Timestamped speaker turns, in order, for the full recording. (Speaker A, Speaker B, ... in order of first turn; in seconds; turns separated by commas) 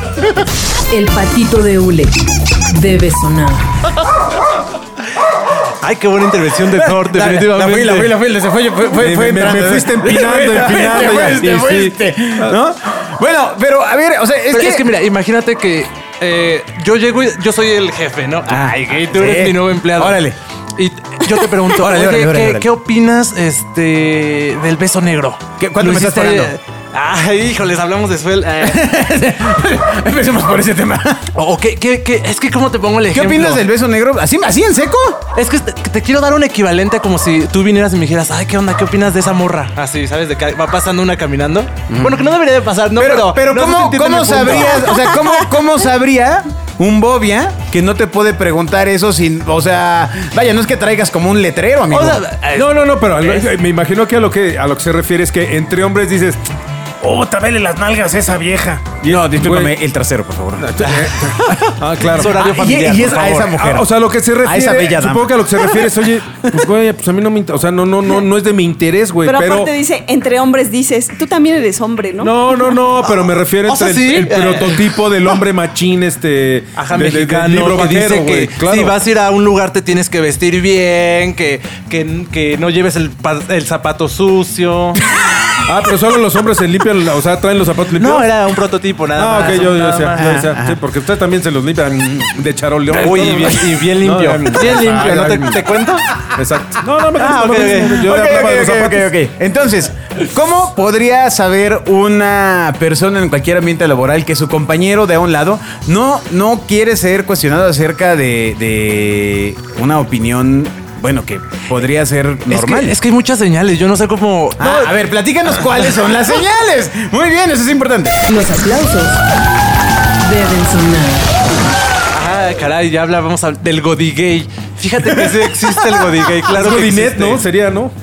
Speaker A: 0.9-3.7, Speaker B: 5.7-8.1, Speaker C: 6.8-14.9, Speaker D: 9.0-12.6, Speaker B: 14.5-28.8, Speaker C: 18.5-20.4, Speaker C: 21.6-22.7, Speaker C: 25.6-26.5, Speaker C: 28.6-31.3, Speaker B: 31.3-33.6, Speaker C: 33.1-35.2, Speaker B: 35.3-45.0, Speaker C: 41.9-42.2, Speaker C: 43.0-52.2, Speaker B: 51.9-53.5, Speaker D: 52.5-56.4, Speaker D: 57.0-59.8, Speaker C: 59.0-63.9, Speaker D: 60.6-62.3, Speaker B: 62.1-63.5, Speaker D: 63.5-69.7, Speaker C: 64.4-65.9, Speaker E: 69.2-72.3, Speaker D: 72.2-79.0, Speaker B: 73.7-75.0, Speaker B: 76.8-85.0, Speaker D: 85.6-88.3, Speaker B: 88.0-90.4, Speaker D: 89.2-95.6, Speaker C: 90.2-90.8, Speaker B: 92.9-96.0, Speaker C: 94.7-95.6, Speaker D: 96.3-99.1, Speaker B: 97.2-98.0, Speaker C: 97.9-113.0, Speaker B: 112.5-115.0, Speaker C: 114.6-118.2, Speaker A: 118.3-119.2, Speaker A: 120.2-121.3, Speaker B: 122.1-127.4, Speaker D: 126.5-127.9